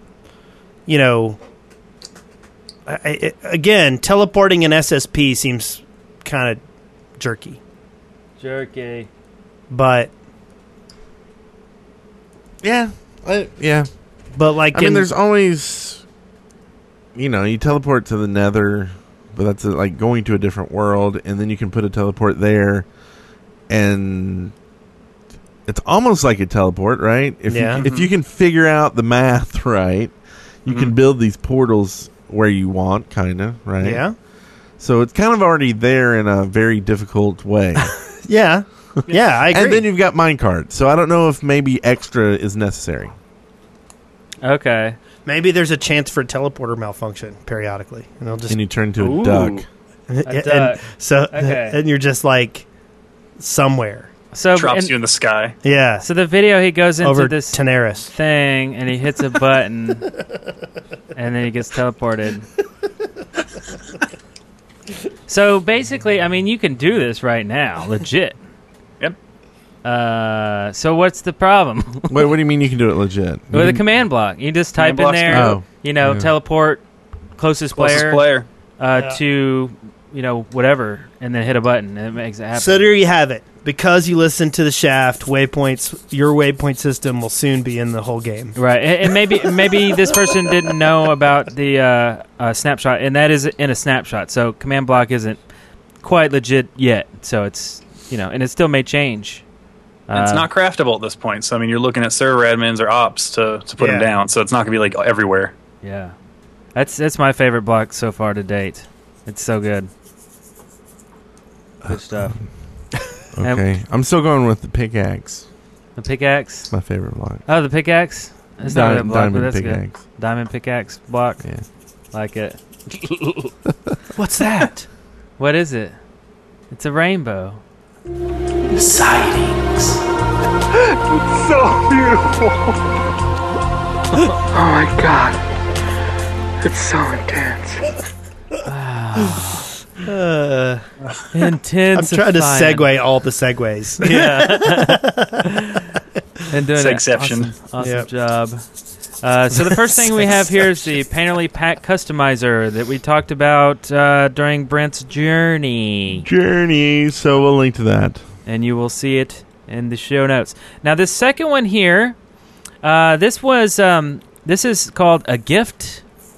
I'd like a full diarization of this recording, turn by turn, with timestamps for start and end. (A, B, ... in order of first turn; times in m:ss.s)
0:00.9-0:01.4 A
0:02.9-0:06.6 A
0:07.2-0:07.6 A
0:08.4-0:09.1 B
0:09.7-0:10.1 A
0:12.6-0:13.9 C
0:14.3-0:15.1 A
0:14.7-0:16.0 C
0:17.1-0:22.8 C
0:23.7-0:24.5 C
0:25.7-0:30.1 C
0:27.5-0:27.8 A
0:27.8-0:28.1 D
0:30.6-0:34.0 C
0:30.7-0:30.9 D
0:33.8-0:34.1 A
0:34.8-0:37.9 C
0:37.8-0:39.8 A
0:39.5-0:43.1 C
0:44.4-0:45.0 B
0:45.2-0:48.6 A
0:48.5-0:49.6 C
0:49.0-0:49.6 B
0:50.1-0:52.7 A
0:50.2-0:51.8 B
0:53.4-0:54.1 A
0:54.3-0:54.9 B
0:54.5-0:55.6 D
0:55.6-0:56.1 A
0:56.0-1:00.1 B
0:57.0-0:58.1 A
1:01.1-1:02.4 B
1:05.3-1:08.4 B
1:09.8-1:12.2 B
1:12.1-1:13.8 C
1:13.5-1:16.8 B
1:14.8-1:15.6 D
1:15.3-1:16.3 C
1:17.4-1:18.2 B
1:17.8-1:18.5 D
1:18.8-1:22.9 B
1:18.9-1:19.2 A
1:22.5-1:28.6 A
1:28.6-1:35.4 B
1:29.4-1:30.5 A
1:36.0-1:39.4 B
1:40.1-1:40.5 B
1:40.1-1:45.5 D
1:43.8-1:44.1 A
1:45.8-1:46.1 B
1:46.7-1:49.9 B
1:51.8-1:52.4 B
1:53.3-1:55.4 C
1:56.0-1:56.7 B
1:56.7-1:57.4 C
1:57.4-2:01.4 B
1:58.6-2:00.0 C
2:02.1-2:02.6 B
2:03.1-2:03.4 B
2:04.1-2:04.8 A
2:05.4-2:06.0 B
2:06.7-2:07.6 B
2:08.7-2:09.9 A
2:14.5-2:15.4 B
2:16.7-2:17.7 B
2:18.6-2:19.6 B
2:20.0-2:20.8 A
2:21.3-2:22.9 B
2:21.9-2:25.5 A
2:24.0-2:25.9 B
2:26.5-2:28.6 B
2:26.8-2:27.5 D
2:27.8-2:28.1 A
2:29.2-2:36.2 B
2:29.6-2:30.5 A
2:36.2-2:38.2 C
2:38.4-2:42.2 B
2:42.8-2:46.0 B